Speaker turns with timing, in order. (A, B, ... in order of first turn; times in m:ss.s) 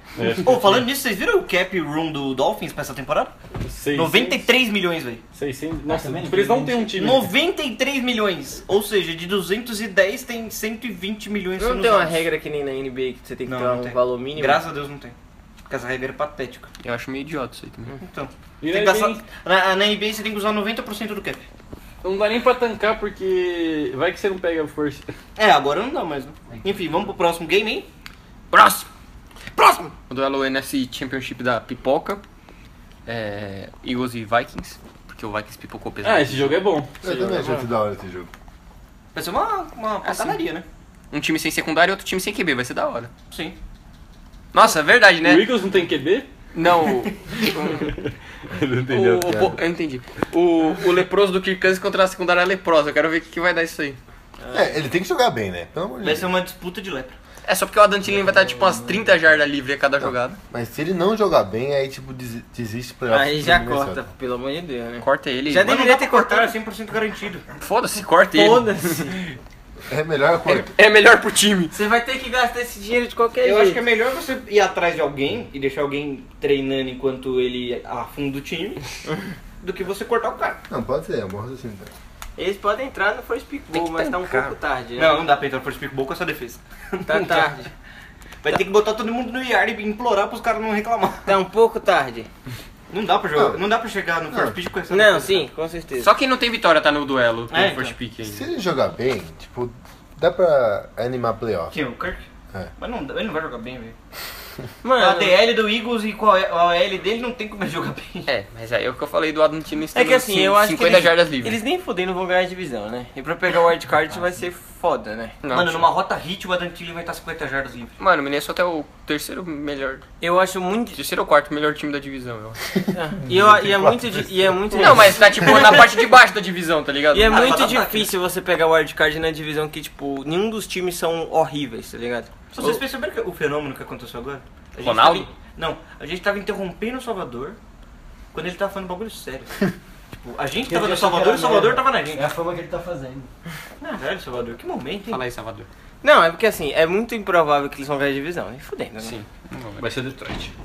0:00.2-0:00.9 A
0:00.3-0:03.4 B
0:03.6-0:04.4 A
0:03.9-0:05.2 B
0:05.3-0:07.3 A
0:05.8-0:06.9 C
0:06.9-0:12.2 B
0:11.6-0:14.6 D
0:13.4-0:15.1 B
0:15.7-0:16.7 B
0:16.8-0:17.9 E
0:18.0-0:21.4 B
0:18.6-0:19.2 A
0:22.0-0:25.1 A
0:25.4-0:27.9 B
0:28.5-0:28.9 E
0:30.1-0:32.2 E
0:33.1-0:36.6 E
0:36.0-0:37.6 A
0:37.0-0:38.3 F
0:39.1-0:40.6 B
0:40.0-0:40.4 E
0:41.1-0:43.1 E
0:43.3-0:43.6 B
0:44.5-0:45.5 E
0:45.2-0:46.3 A
0:46.5-0:47.9 E
0:48.5-0:49.5 A
0:48.9-0:54.0 E
0:54.5-0:56.3 F
0:56.0-0:57.2 B
0:57.4-1:00.4 E
0:58.1-0:59.2 C
1:00.5-1:04.0 F
1:03.1-1:06.5 D
1:05.0-1:05.8 E
1:05.6-1:07.4 B
1:07.6-1:09.2 E
1:08.3-1:09.2 D
1:09.9-1:10.7 F
1:10.4-1:11.7 E
1:11.7-1:13.8 D
1:13.4-1:18.8 B
1:19.6-1:20.6 B
1:20.7-1:21.9 F
1:22.4-1:25.2 D
1:23.7-1:24.5 E
1:25.0-1:27.6 B
1:27.1-1:27.7 D
1:28.4-1:31.4 B
1:31.2-1:32.3 D
1:32.9-1:35.5 B
1:33.3-1:33.6 F
1:34.9-1:36.1 D
1:36.0-1:38.4 E
1:37.5-1:37.9 B
1:38.2-1:41.8 F
1:41.7-1:42.2 B
1:42.8-1:43.9 B
1:44.8-1:45.4 D
1:45.0-1:48.3 B
1:48.3-1:51.6 E
1:49.9-1:55.4 D
1:55.4-1:55.9 E
1:55.5-1:57.9 B
1:58.0-2:00.0 E
2:00.2-2:01.0 D
2:00.9-2:02.6 E
2:02.9-2:05.8 D
2:03.3-2:04.6 F
2:04.7-2:07.6 E
2:07.1-2:12.8 D
2:07.2-2:08.1 B
2:12.5-2:17.6 B
2:14.8-2:15.3 E
2:18.3-2:19.5 B
2:20.1-2:22.3 B
2:20.6-2:23.3 C
2:23.8-2:25.2 B
2:25.1-2:25.7 E
2:26.0-2:29.2 D
2:29.0-2:29.9 E
2:29.8-2:30.5 A